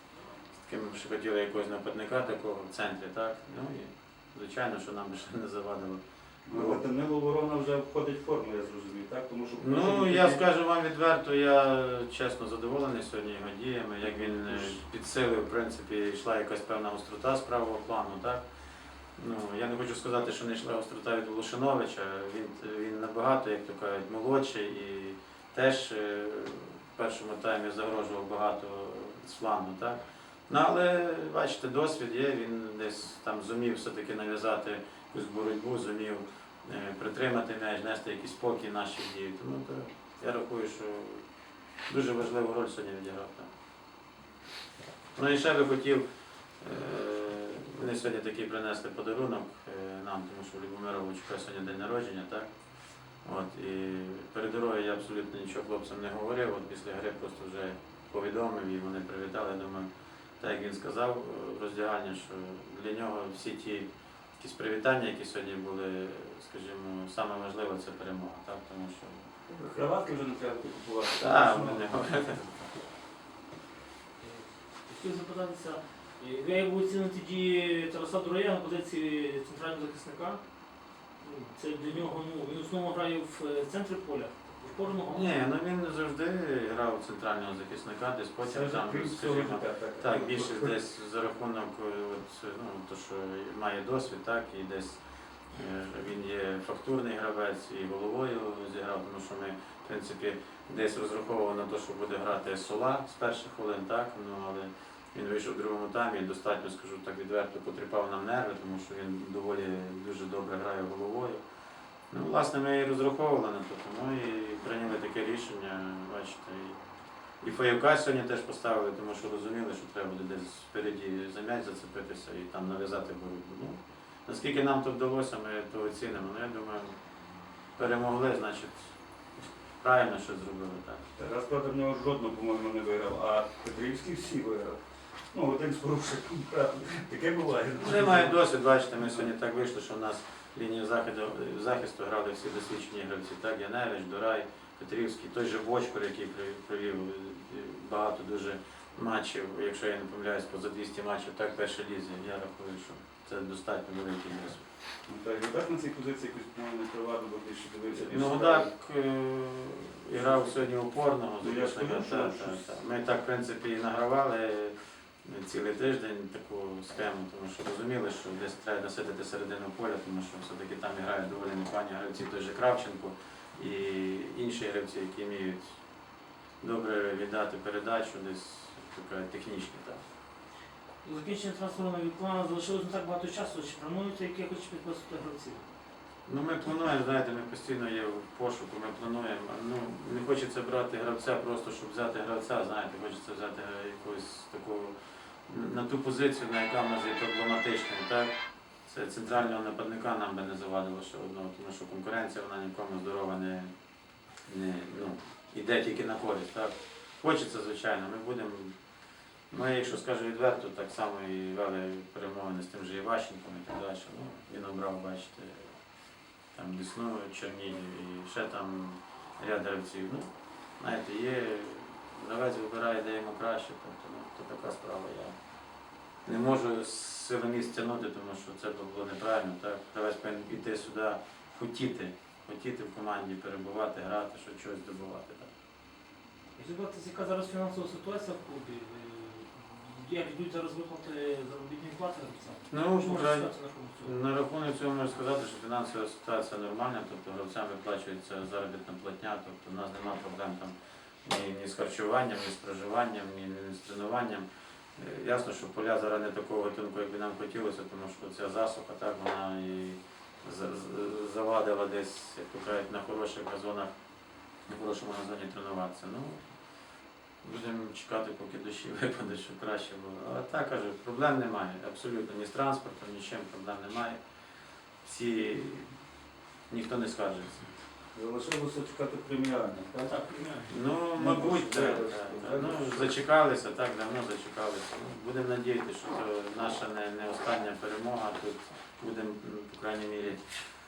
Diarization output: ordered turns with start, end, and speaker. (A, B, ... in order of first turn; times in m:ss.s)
0:00.5-0:06.8 A
0:06.5-0:10.4 B
0:09.6-0:18.4 A
0:14.1-0:14.8 B
0:19.2-0:41.2 A
0:41.9-0:43.5 A
0:45.2-0:46.1 A
0:46.6-0:52.5 A
0:53.2-0:59.9 A
1:00.4-1:03.9 A
1:04.4-1:09.3 A
1:09.5-1:11.9 B
1:11.2-1:12.6 A
1:14.2-1:20.4 C
1:21.2-1:25.4 C
1:25.1-1:35.0 A
1:28.4-1:30.8 B
1:35.5-1:51.4 A
1:52.1-1:56.8 A
1:57.4-2:06.9 A
2:07.8-2:08.9 A
2:09.8-2:11.0 A
2:11.2-2:14.8 B
2:15.3-2:18.4 B
2:17.8-2:34.6 A
2:35.1-2:38.7 B
2:37.9-2:55.8 A
2:40.1-2:40.6 B
2:41.4-2:42.7 B
2:56.6-3:00.0 A
3:01.0-3:05.6 C
3:06.2-3:14.9 A
3:15.5-3:18.3 A
3:18.9-3:23.7 A
3:24.4-3:28.8 A
3:29.5-3:35.8 A
3:36.5-3:45.3 A
3:46.2-3:55.5 A
3:56.6-4:04.1 C
4:02.7-4:10.7 A
4:11.2-4:14.4 A
4:15.0-4:23.9 A
4:24.7-4:26.4 A
4:27.4-4:34.2 A
4:35.0-4:35.9 A
4:36.7-4:37.7 A
4:38.1-4:40.2 B
4:40.1-4:40.7 C
4:40.7-4:50.6 A
4:41.1-4:43.1 B